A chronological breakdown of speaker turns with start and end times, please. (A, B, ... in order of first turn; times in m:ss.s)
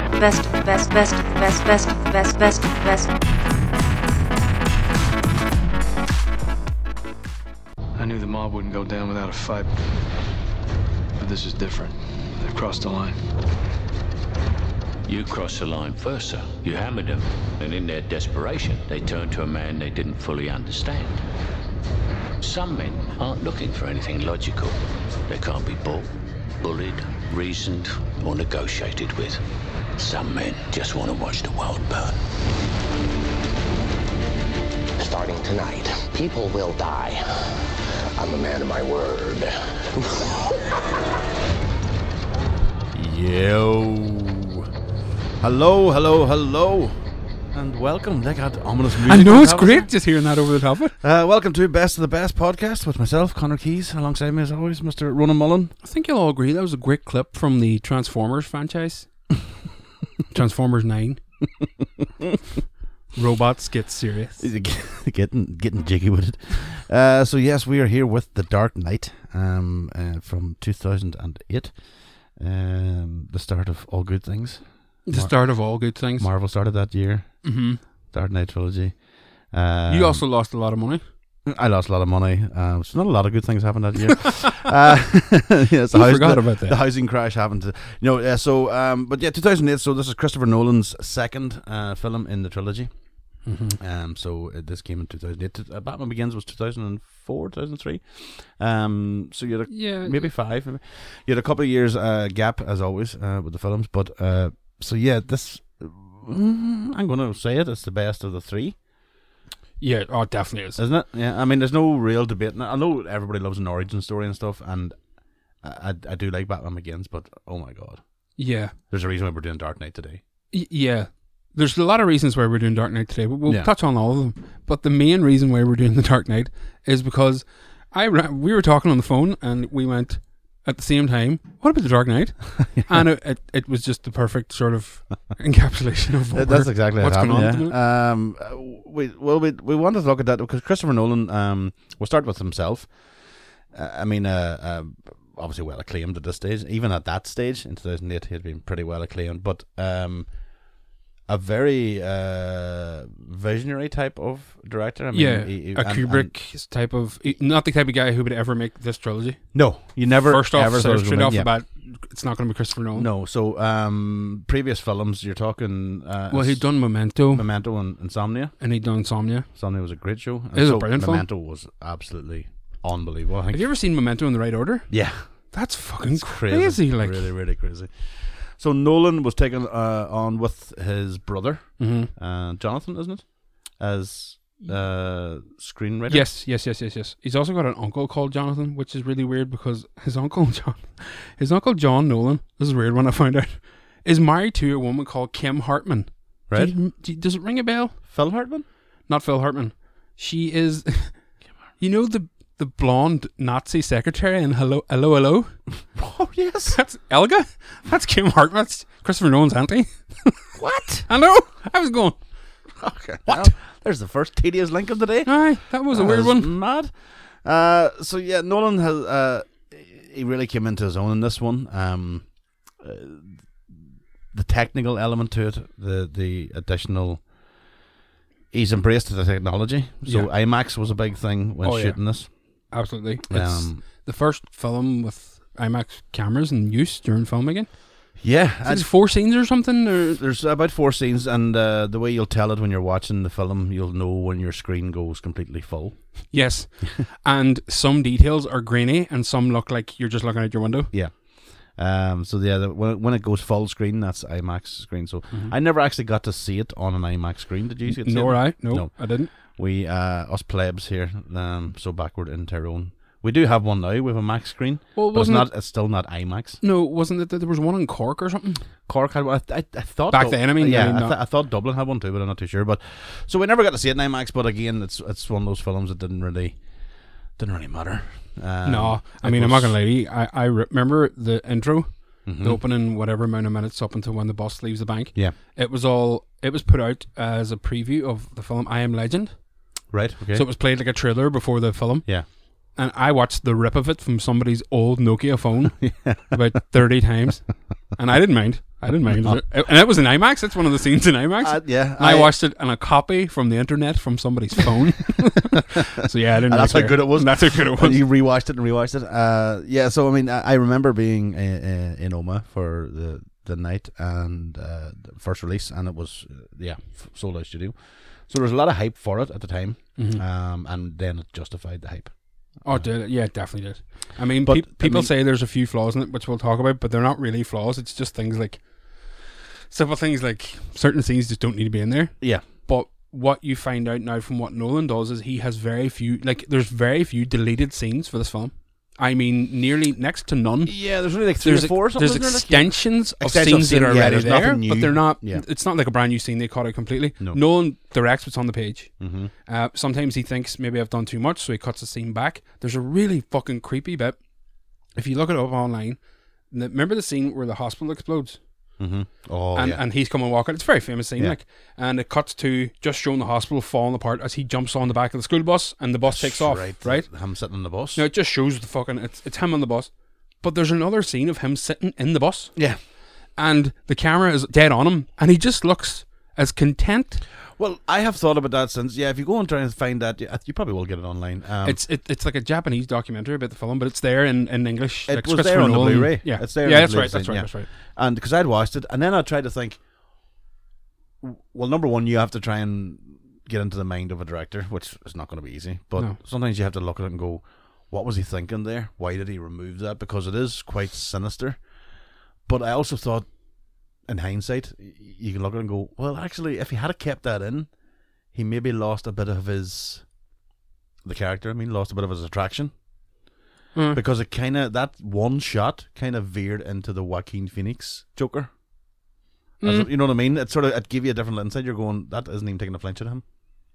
0:00.1-0:03.1 A
0:08.0-0:09.7 B
0:11.2-0:13.2 B
0:15.0-0:21.2 C
0:22.4-0:29.4 C
0:30.0-0:32.2 C
0:35.0-0:40.7 D
0:42.9-0:44.7 E
0:45.4-0:47.0 E
0:47.5-0:50.0 E
0:49.0-0:51.0 F
0:51.0-0:55.7 E
0:55.8-0:59.1 F
1:00.3-1:01.2 F
1:03.1-1:04.5 F
1:04.4-1:20.2 E
1:15.0-1:16.3 F
1:17.4-1:17.8 F
1:19.9-1:21.0 F
1:21.4-1:48.8 E
1:25.9-1:26.8 F
1:33.4-1:33.8 F
1:39.7-1:40.3 F
1:49.8-1:50.8 F
1:50.8-1:58.3 E
1:58.4-1:58.7 F
1:58.9-2:00.2 E
2:00.5-2:17.8 F
2:03.4-2:03.7 E
2:12.6-2:13.1 E
2:16.3-2:30.7 E
2:31.2-2:36.3 E
2:35.1-2:43.1 F
2:39.5-2:41.5 E
2:42.9-2:48.5 E
2:46.3-2:47.4 F
2:48.6-2:49.5 F
2:49.5-2:53.7 E
2:50.5-2:51.2 F
2:53.5-2:57.3 F
2:54.9-3:06.3 E
3:01.8-3:02.1 F
3:06.1-3:18.0 F
3:16.5-3:16.8 E
3:18.1-3:18.7 E
3:19.1-3:25.6 F
3:25.9-3:26.8 E
3:26.7-3:30.5 F
3:30.6-3:31.0 E
3:31.1-3:32.2 F
3:32.8-3:43.8 E
3:35.2-3:36.5 F
3:44.3-3:47.3 E
3:48.5-3:53.8 E
3:50.0-3:50.3 F
3:51.6-4:00.2 F
3:58.2-3:59.0 E
4:00.2-4:07.0 E
4:06.3-4:10.9 F
4:10.9-4:26.6 E
4:17.9-4:19.3 F
4:24.9-4:25.5 F
4:26.6-4:28.6 F
4:28.9-4:39.8 E
4:30.1-4:31.2 F
4:38.6-4:49.6 F
4:42.2-4:42.6 E
4:49.9-4:50.5 E
4:50.3-5:08.0 F
4:55.8-4:56.4 E
4:59.0-4:59.4 E
5:01.4-5:02.3 E
5:06.4-5:22.9 E
5:20.0-5:20.2 F
5:22.6-5:29.2 F
5:24.4-5:25.1 E
5:29.7-5:54.2 F
5:32.2-5:32.4 E
5:40.6-5:45.4 E
5:49.0-5:49.3 E
5:54.9-5:58.4 F
5:58.8-5:59.8 E
5:59.5-6:17.2 F
6:06.0-6:08.1 E
6:12.6-6:12.8 E
6:17.5-6:21.8 E
6:21.6-6:27.7 F
6:25.1-6:29.8 E
6:31.2-6:41.9 E
6:42.4-6:50.1 E
6:51.0-6:52.7 E
6:53.7-6:54.0 F
6:53.9-6:58.5 E
6:59.6-7:03.2 E
6:59.6-6:59.9 F